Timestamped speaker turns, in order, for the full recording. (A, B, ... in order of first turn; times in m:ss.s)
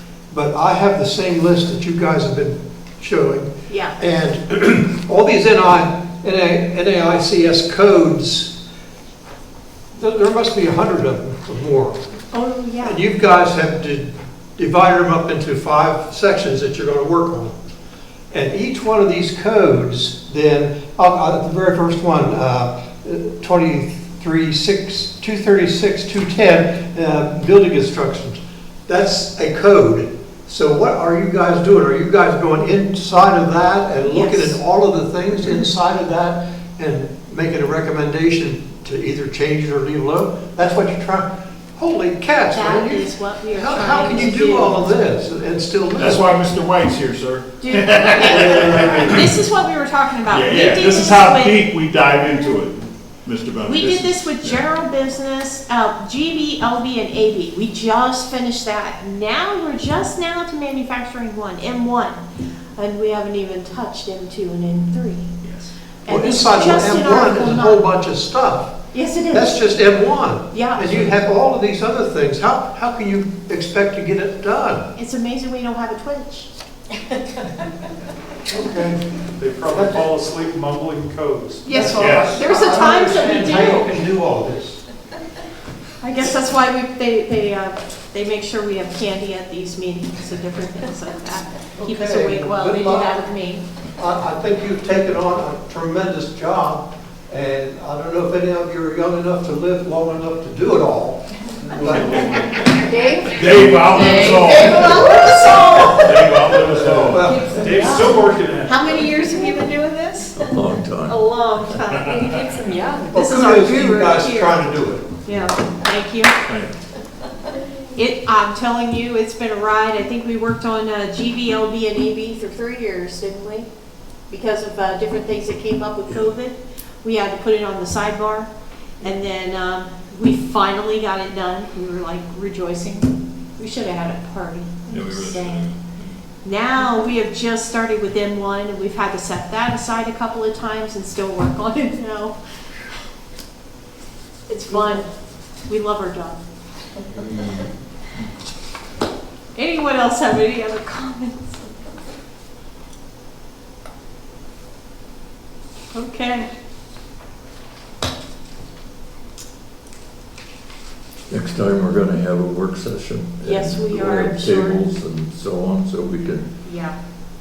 0:00.3-0:08.5 A
0:03.7-0:04.0 B
0:09.9-0:12.0 A
0:12.3-0:13.0 B
0:12.8-0:17.5 A
0:18.3-0:46.3 A
0:34.0-0:34.6 B
0:42.5-0:45.0 B
0:46.0-0:49.3 C
0:47.6-0:51.7 B
0:48.2-0:49.2 A
0:50.2-0:54.6 C
0:53.6-1:02.2 B
1:02.8-1:05.3 B
1:05.4-1:05.7 C
1:06.0-1:07.8 B
1:06.1-1:08.8 A
1:08.9-1:09.6 B
1:09.3-1:14.9 A
1:10.5-1:11.1 B
1:15.0-1:16.5 B
1:18.5-1:19.0 A
1:19.4-1:21.6 D
1:19.7-1:20.1 A
1:21.7-1:24.0 B
1:21.7-1:24.8 A
1:21.9-1:22.4 C
1:26.0-1:33.6 B
1:31.8-1:33.2 A
1:34.0-1:42.5 A
1:41.8-1:42.6 C
1:42.6-1:42.9 E
1:42.7-1:46.4 B
1:43.3-1:45.0 C
1:44.1-1:45.4 E
1:46.0-1:47.5 C
1:46.4-1:49.2 D
1:47.0-1:47.9 A
1:47.2-1:48.3 E
1:47.8-1:48.0 B
1:48.6-1:52.2 B
1:49.2-1:49.6 E
1:50.4-1:51.2 F
1:51.8-1:52.4 C
1:52.1-1:53.1 E
1:53.1-1:54.6 B
1:53.1-1:55.1 A
1:55.2-1:56.4 B
1:56.5-1:56.8 C
1:57.9-2:03.7 B
2:04.3-2:15.7 B
2:14.9-2:16.2 C
2:16.4-2:22.4 B
2:24.5-2:25.1 B
2:25.7-2:26.4 B
2:27.2-2:27.7 C
2:29.6-2:31.7 B
2:35.9-2:36.5 B
2:41.3-2:46.5 F
2:43.4-2:44.8 B
2:46.6-2:47.0 B